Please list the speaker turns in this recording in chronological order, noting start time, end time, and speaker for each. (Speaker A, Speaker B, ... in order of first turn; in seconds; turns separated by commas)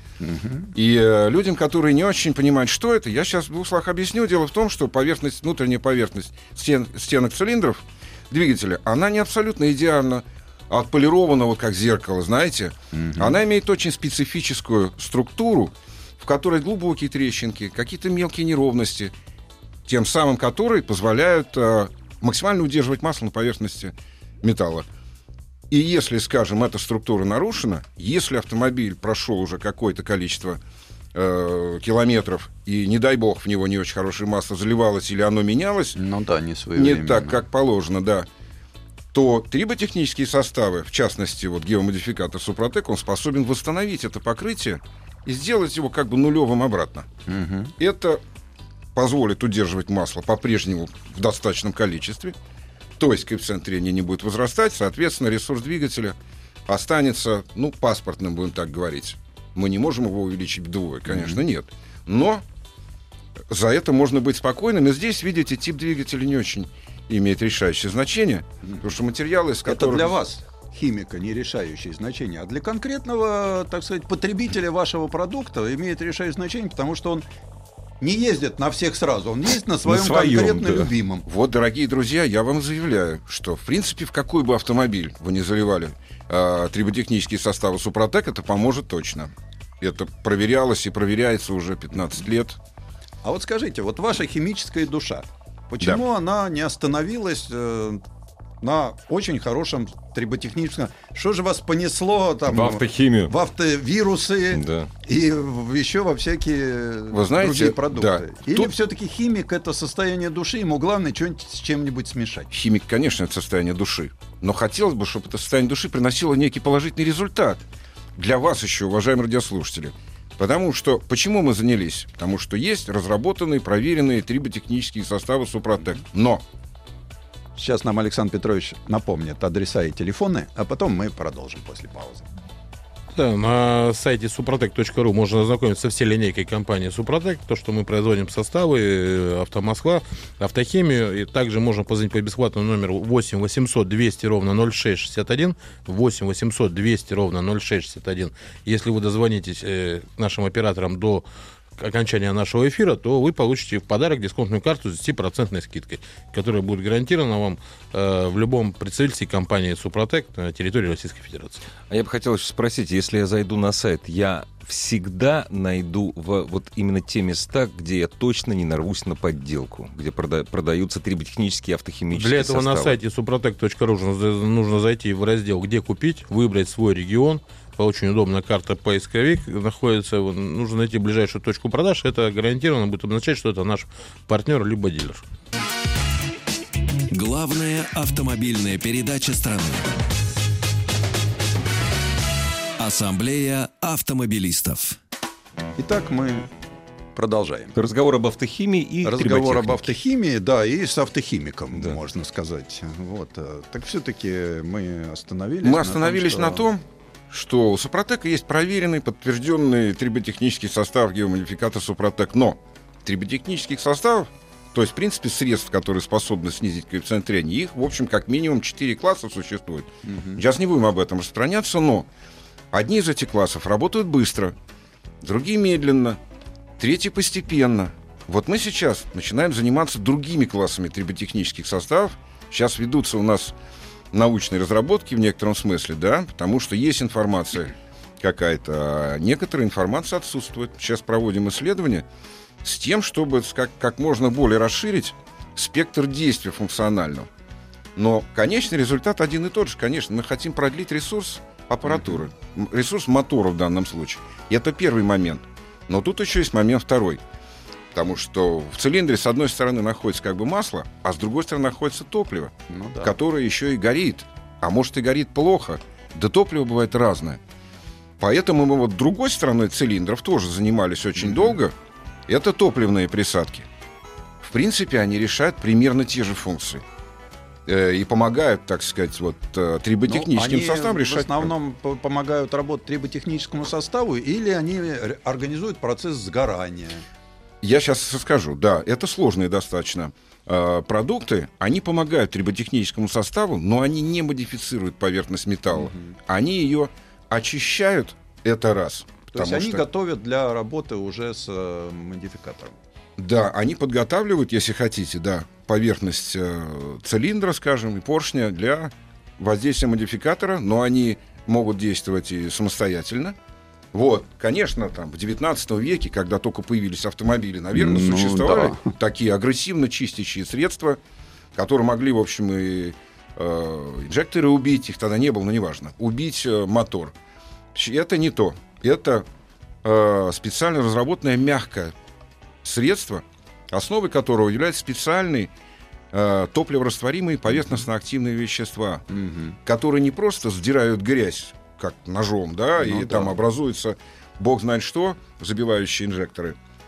Speaker A: 0.2-0.7, Speaker B: 0.7-19.1, Speaker A: 12.9-13.3, Speaker B: 19.9-24.9, Speaker B: 25.7-30.6, Speaker B: 31.1-36.0, Speaker A: 36.0-37.4, Speaker B: 36.7-38.3, Speaker B: 39.1-47.0, Speaker A: 47.3-47.7, Speaker B: 47.8-48.2, Speaker B: 48.9-52.4, Speaker B: 53.0-56.1, Speaker B: 56.7-62.4, Speaker A: 61.1-61.4, Speaker B: 63.5-70.1, Speaker A: 69.7-77.2, Speaker A: 78.0-81.2, Speaker C: 79.8-80.9, Speaker B: 81.3-92.6, Speaker A: 93.2-98.0, Speaker A: 98.6-112.5, Speaker C: 102.5-103.3, Speaker C: 104.5-104.9, Speaker B: 107.1-108.7, Speaker B: 112.5-117.6, Speaker B: 118.2-126.4, Speaker A: 127.5-132.2, Speaker D: 133.1-151.2, Speaker D: 151.8-161.6, Speaker C: 161.9-173.0, Speaker D: 172.1-185.2, Speaker E: 187.1-189.9, Speaker E: 192.8-195.0, Speaker A: 195.8-196.5, Speaker A: 197.1-197.7, Speaker C: 197.7-199.9, Speaker A: 199.0-206.6, Speaker B: 205.6-222.1, Speaker A: 220.1-220.4, Speaker B: 222.7-224.5, Speaker B: 225.2-226.2, Speaker B: 226.8-233.5, Speaker B: 234.1-242.0, Speaker B: 242.6-247.3, Speaker B: 247.9-257.2, Speaker B: 257.9-267.4, Speaker A: 262.7-263.1, Speaker B: 268.2-271.7, Speaker A: 271.2-271.5, Speaker B: 272.3-273.7, Speaker B: 274.4-276.8, Speaker B: 277.7-281.5, Speaker A: 280.1-287.0, Speaker B: 287.6-299.8, Speaker A: 295.7-296.1, Speaker A: 299.3-302.7, Speaker B: 303.2-313.3, Speaker B: 313.9-321.0, Speaker A: 317.7-318.8, Speaker B: 321.5-327.1, Speaker B: 327.7-329.2, Speaker B: 329.8-331.9, Speaker B: 332.6-335.5, Speaker B: 336.1-339.0, Speaker A: 339.1-339.6, Speaker B: 339.6-346.6, Speaker A: 342.8-343.4